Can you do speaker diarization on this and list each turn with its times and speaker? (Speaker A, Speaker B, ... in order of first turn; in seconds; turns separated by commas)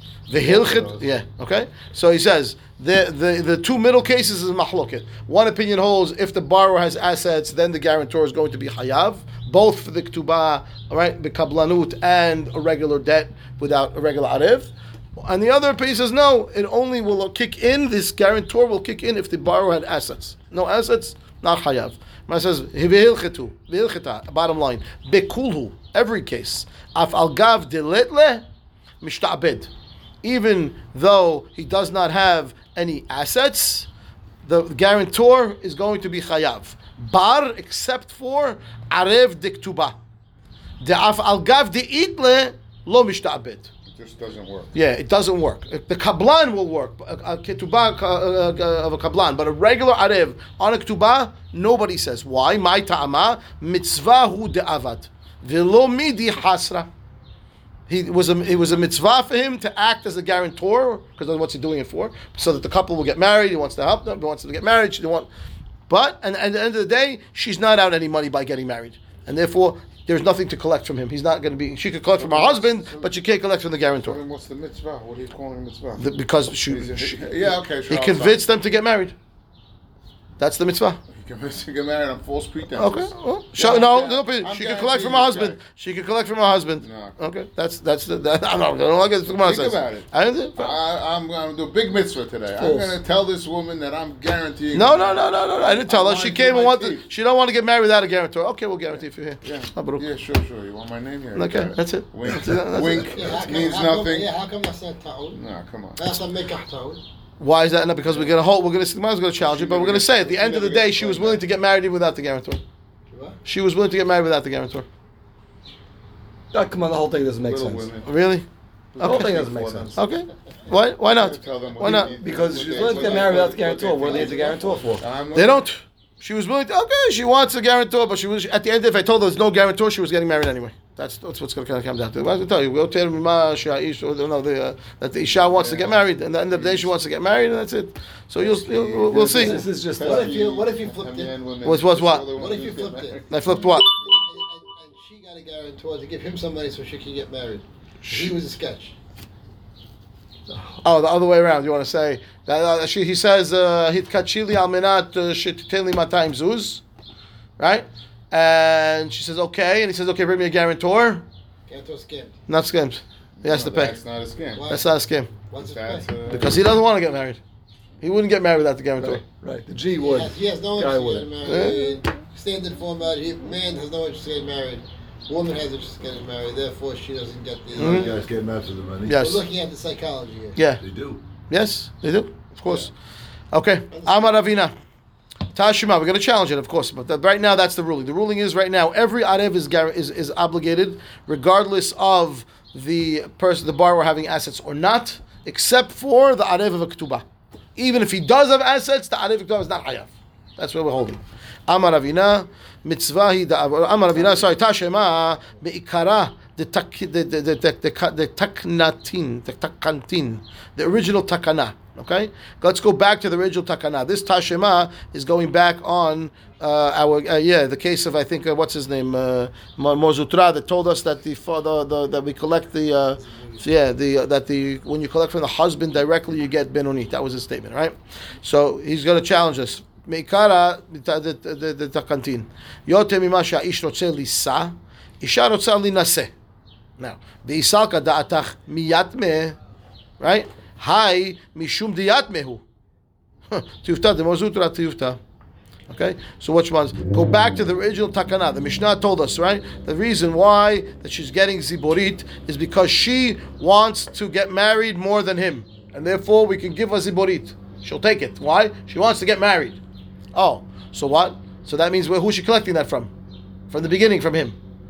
Speaker A: 0.3-28.4, Speaker B: 0.3-1.0, Speaker A: 29.0-29.7, Speaker A: 30.2-33.9, Speaker A: 34.4-40.0, Speaker A: 40.8-43.7, Speaker C: 43.9-44.8, Speaker A: 44.7-56.9, Speaker A: 57.9-65.3, Speaker A: 65.9-74.2, Speaker C: 72.1-73.2, Speaker C: 74.0-76.1, Speaker A: 76.0-79.2, Speaker C: 76.7-78.5, Speaker A: 80.4-81.0, Speaker C: 81.1-85.6, Speaker A: 82.8-90.7, Speaker C: 86.8-87.2, Speaker C: 89.2-97.1, Speaker D: 92.6-92.9, Speaker A: 94.7-100.0, Speaker C: 99.4-104.3, Speaker A: 101.3-103.2, Speaker E: 103.1-105.4, Speaker C: 105.3-106.2, Speaker E: 106.0-107.0, Speaker A: 107.4-112.6, Speaker C: 108.1-108.4, Speaker C: 109.4-111.4, Speaker E: 113.1-113.4, Speaker A: 113.5-114.9, Speaker D: 116.5-117.9, Speaker C: 117.5-118.1, Speaker A: 118.0-118.5, Speaker C: 119.0-120.1, Speaker A: 119.0-122.1, Speaker D: 119.0-120.0, Speaker C: 121.0-125.7, Speaker D: 122.0-125.1, Speaker E: 122.9-123.4, Speaker E: 124.1-124.4, Speaker A: 125.3-139.7, Speaker C: 135.4-136.9, Speaker C: 138.4-143.8, Speaker D: 139.1-140.4, Speaker E: 139.4-141.3, Speaker A: 141.7-142.3, Speaker E: 142.3-148.9, Speaker A: 143.3-143.9, Speaker A: 148.0-148.3, Speaker D: 150.5-150.8, Speaker A: 150.8-156.8, Speaker A: 157.6-161.2, Speaker E: 161.7-162.4, Speaker A: 162.5-164.0, Speaker C: 163.4-164.7, Speaker E: 164.5-164.9, Speaker A: 164.7-165.3, Speaker E: 165.5-166.5, Speaker C: 165.6-166.8, Speaker A: 166.3-167.4, Speaker A: 168.0-169.2, Speaker D: 169.0-171.4, Speaker E: 170.0-178.2, Speaker A: 171.4-171.9, Speaker B: 177.8-179.2, Speaker A: 177.8-178.1, Speaker A: 179.1-179.4, Speaker E: 179.1-180.6, Speaker A: 180.6-180.8, Speaker B: 180.8-181.2, Speaker A: 181.5-182.9, Speaker A: 183.5-184.7, Speaker E: 183.9-184.4, Speaker A: 185.6-197.2, Speaker A: 197.8-236.3, Speaker C: 204.1-204.5, Speaker E: 223.2-223.6, Speaker A: 237.0-239.6, Speaker A: 240.2-242.6, Speaker A: 243.5-245.2, Speaker A: 245.9-259.8, Speaker A: 260.3-263.1, Speaker A: 263.7-264.6